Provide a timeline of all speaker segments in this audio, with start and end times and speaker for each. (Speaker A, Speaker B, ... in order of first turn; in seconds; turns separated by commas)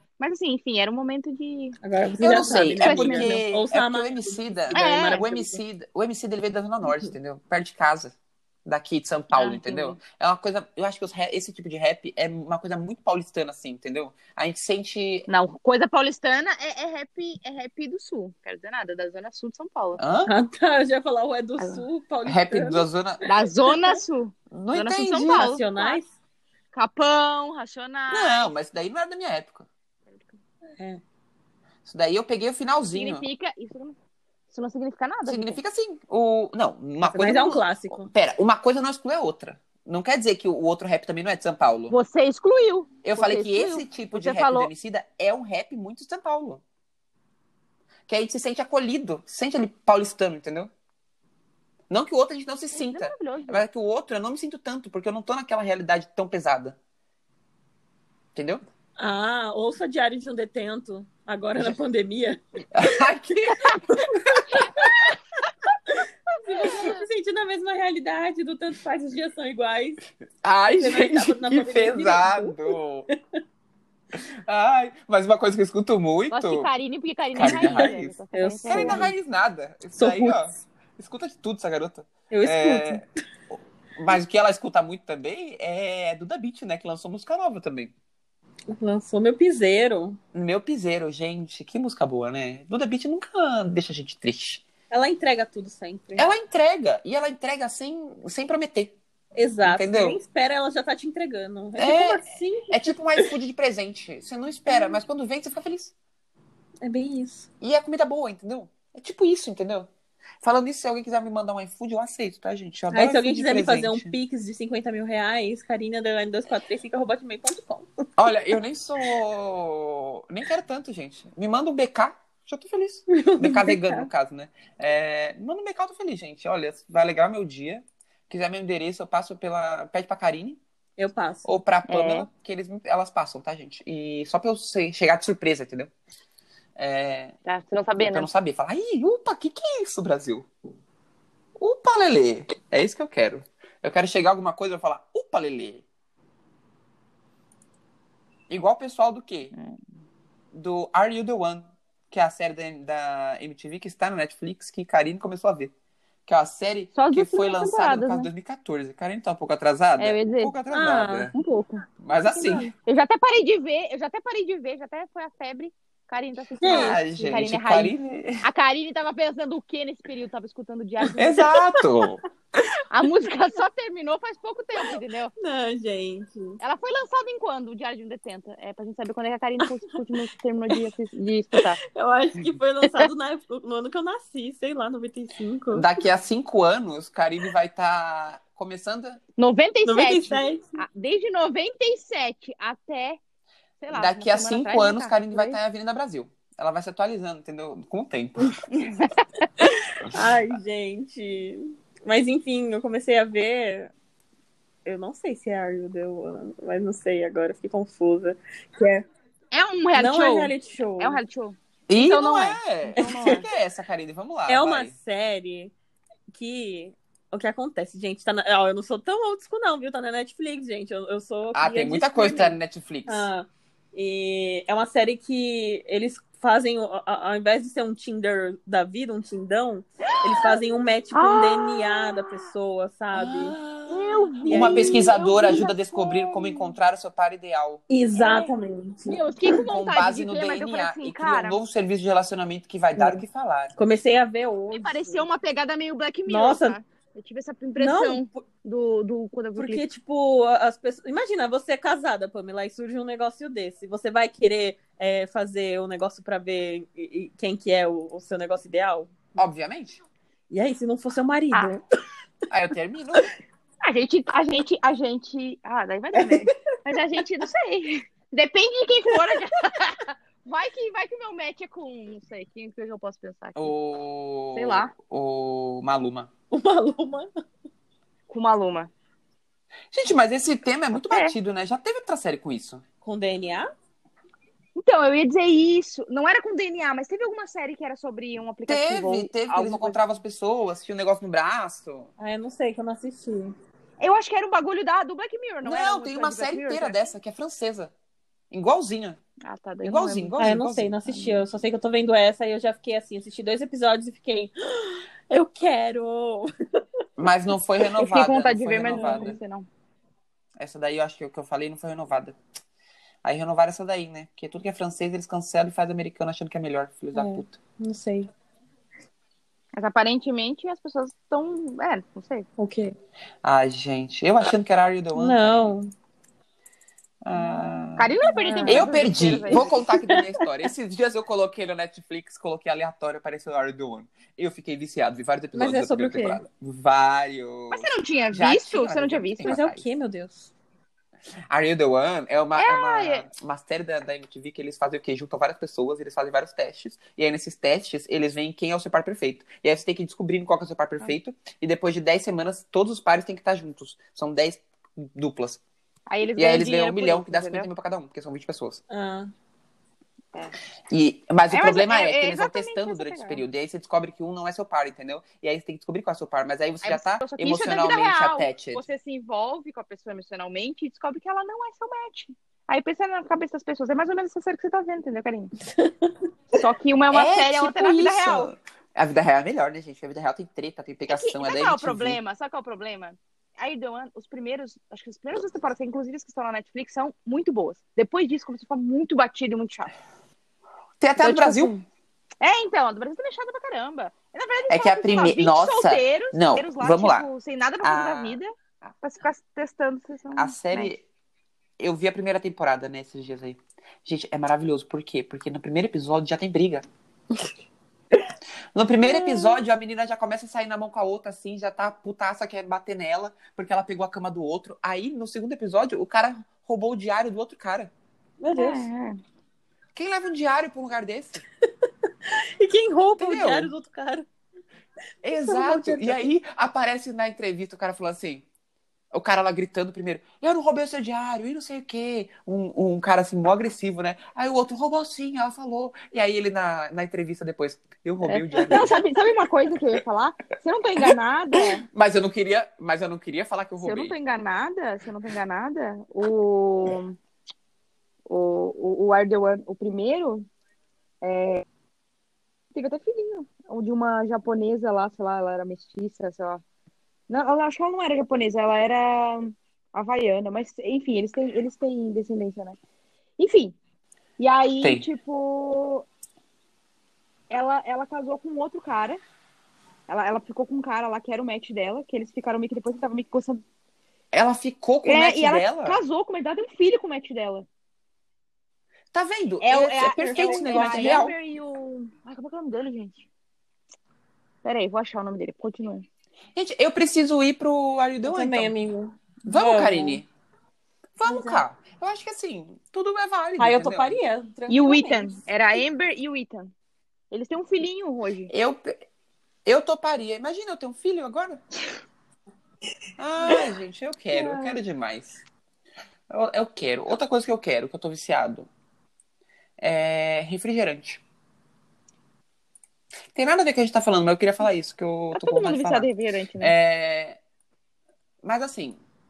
Speaker A: 0.2-1.8, Speaker B: 1.8-5.6, Speaker C: 2.2-15.3, Speaker A: 2.6-3.4, Speaker A: 4.7-5.3, Speaker A: 9.3-10.0, Speaker A: 15.3-20.0, Speaker C: 20.0-20.3, Speaker B: 20.2-24.0, Speaker A: 21.6-21.8, Speaker C: 22.2-23.2, Speaker A: 23.2-26.0, Speaker C: 24.5-25.6, Speaker B: 25.3-26.1, Speaker A: 26.7-28.5, Speaker C: 28.1-29.7, Speaker A: 30.1-30.4, Speaker B: 30.8-31.0, Speaker C: 31.8-33.2, Speaker A: 32.9-34.0, Speaker A: 34.5-35.6, Speaker C: 35.2-41.9, Speaker B: 37.0-38.1, Speaker A: 41.9-44.7, Speaker C: 43.0-46.6, Speaker C: 48.1-50.7, Speaker C: 51.9-56.8, Speaker A: 52.7-53.6, Speaker C: 58.3-58.6, Speaker B: 59.0-62.8, Speaker C: 62.7-64.4, Speaker B: 63.7-65.0, Speaker A: 64.5-65.1, Speaker A: 66.3-67.0, Speaker B: 66.5-70.0, Speaker C: 70.4-73.1, Speaker B: 70.7-72.7, Speaker C: 74.1-76.7, Speaker A: 76.3-79.1, Speaker C: 77.3-78.2, Speaker B: 77.4-79.1, Speaker C: 78.7-83.0, Speaker B: 80.0-80.5, Speaker B: 82.3-83.0, Speaker C: 84.0-87.9, Speaker B: 88.7-90.2, Speaker C: 90.3-94.6, Speaker B: 94.9-96.3, Speaker C: 96.2-98.9, Speaker B: 99.3-103.3, Speaker C: 99.6-100.2, Speaker C: 101.8-105.9, Speaker B: 104.7-105.0, Speaker B: 106.8-107.5, Speaker C: 107.6-109.9, Speaker C: 110.4-114.1, Speaker B: 112.9-118.1, Speaker C: 118.2-130.6, Speaker B: 123.1-124.1, Speaker B: 131.0-131.6, Speaker C: 131.4-135.9, Speaker A: 131.9-132.3, Speaker C: 136.8-137.3, Speaker A: 137.4-138.3, Speaker C: 138.0-140.5, Speaker C: 141.6-145.8, Speaker C: 148.5-149.5, Speaker A: 149.5-149.8, Speaker C: 150.5-155.7, Speaker C: 156.3-161.3, Speaker A: 156.9-158.3, Speaker A: 160.0-160.6, Speaker B: 160.7-161.3, Speaker A: 161.3-171.5, Speaker C: 162.0-162.7, Speaker B: 166.6-167.3, Speaker C: 166.6-168.4, Speaker C: 171.2-172.2, Speaker B: 171.4-172.1, Speaker A: 172.9-175.3, Speaker B: 175.4-176.6, Speaker A: 176.6-181.8, Speaker B: 179.6-180.0, Speaker B: 181.5-185.9, Speaker C: 185.7-189.2, Speaker A: 189.4-193.2, Speaker B: 189.8-190.7, Speaker A: 193.8-195.6, Speaker C: 193.9-198.6, Speaker A: 198.7-199.5, Speaker B: 199.6-203.9, Speaker B: 204.8-209.1, Speaker A: 209.5-213.5, Speaker B: 209.9-211.2, Speaker C: 211.9-214.9, Speaker B: 213.0-213.3, Speaker B: 214.5-215.7, Speaker B: 216.3-222.6, Speaker C: 221.5-223.3, Speaker B: 223.1-233.6, Speaker A: 230.1-230.5, Speaker A: 231.1-232.3, Speaker C: 233.1-237.8, Speaker A: 233.9-236.7, Speaker B: 234.4-235.1, Speaker B: 237.9-239.2, Speaker A: 238.1-238.5, Speaker A: 239.1-241.6, Speaker C: 239.5-243.7, Speaker B: 242.9-243.2, Speaker B: 243.8-245.2, Speaker A: 244.7-249.8, Speaker B: 246.3-246.8, Speaker B: 247.8-248.4, Speaker B: 249.6-259.3, Speaker C: 259.4-260.0, Speaker B: 260.5-261.8, Speaker C: 262.5-263.3, Speaker A: 263.8-273.7, Speaker B: 266.1-266.5, Speaker C: 273.6-276.3, Speaker A: 274.5-274.9, Speaker B: 276.5-277.3, Speaker A: 278.3-278.9, Speaker C: 279.9-282.8, Speaker A: 280.9-281.3, Speaker B: 283.0-283.7, Speaker A: 284.8-290.0, Speaker C: 288.7-292.1, Speaker B: 292.2-293.5, Speaker A: 294.0-297.0, Speaker C: 295.6-297.9, Speaker C: 298.5-299.2, Speaker A: 299.4-300.5, Speaker C: 299.8-301.0, Speaker B: 300.4-306.5, Speaker A: 301.1-301.4, Speaker C: 307.2-309.4, Speaker A: 308.0-309.6, Speaker B: 308.9-309.3, Speaker C: 310.6-312.4, Speaker C: 313.2-317.6, Speaker B: 317.1-318.3, Speaker A: 319.8-322.5, Speaker B: 322.6-322.9, Speaker C: 323.4-325.7, Speaker B: 325.1-325.9, Speaker C: 327.2-328.1, Speaker A: 327.9-329.8, Speaker B: 328.2-330.5, Speaker C: 328.6-339.8, Speaker B: 335.5-336.4, Speaker A: 337.7-339.5, Speaker B: 339.4-340.5, Speaker C: 341.5-355.6, Speaker A: 342.6-343.3, Speaker A: 356.1-357.7, Speaker C: 356.4-358.8, Speaker B: 358.9-359.3, Speaker C: 360.9-368.8, Speaker A: 361.5-363.4, Speaker A: 366.8-375.5, Speaker B: 375.7-376.1, Speaker A: 376.5-378.5, Speaker C: 377.1-382.2, Speaker A: 381.1-389.9, Speaker C: 391.0-391.7, Speaker A: 391.2-391.8, Speaker A: 392.4-400.9, Speaker C: 394.7-397.3, Speaker C: 397.8-398.4, Speaker C: 400.3-401.0, Speaker C: 401.8-406.8, Speaker C: 408.7-417.9, Speaker B: 418.4-418.9, Speaker A: 418.5-419.2, Speaker C: 419.9-421.4, Speaker B: 422.2-424.3, Speaker C: 423.2-423.7, Speaker C: 425.2-428.4, Speaker B: 425.3-426.3, Speaker C: 429.1-438.9, Speaker A: 438.2-441.8, Speaker C: 441.5-444.1, Speaker A: 443.8-447.2, Speaker A: 448.3-450.5, Speaker A: 451.2-451.6, Speaker A: 452.7-456.6, Speaker A: 457.3-462.8, Speaker A: 463.4-463.8, Speaker A: 464.4-466.1, Speaker C: 464.8-465.1, Speaker A: 467.5-469.2, Speaker A: 470.1-473.6, Speaker C: 474.3-476.0, Speaker A: 475.0-477.7, Speaker C: 479.1-481.3, Speaker A: 479.6-483.3, Speaker B: 480.3-481.2, Speaker A: 484.6-486.0, Speaker C: 486.5-488.7, Speaker B: 488.2-490.2, Speaker C: 489.4-490.3, Speaker C: 491.2-494.2, Speaker B: 491.2-491.6, Speaker B: 493.6-495.4, Speaker A: 494.7-496.7, Speaker A: 497.3-498.5, Speaker C: 498.5-498.9, Speaker C: 499.6-501.6, Speaker C: 503.2-505.4, Speaker C: 506.3-508.7, Speaker C: 509.8-511.2, Speaker C: 513.3-516.1, Speaker A: 515.3-516.7, Speaker C: 516.6-517.4, Speaker C: 518.4-519.0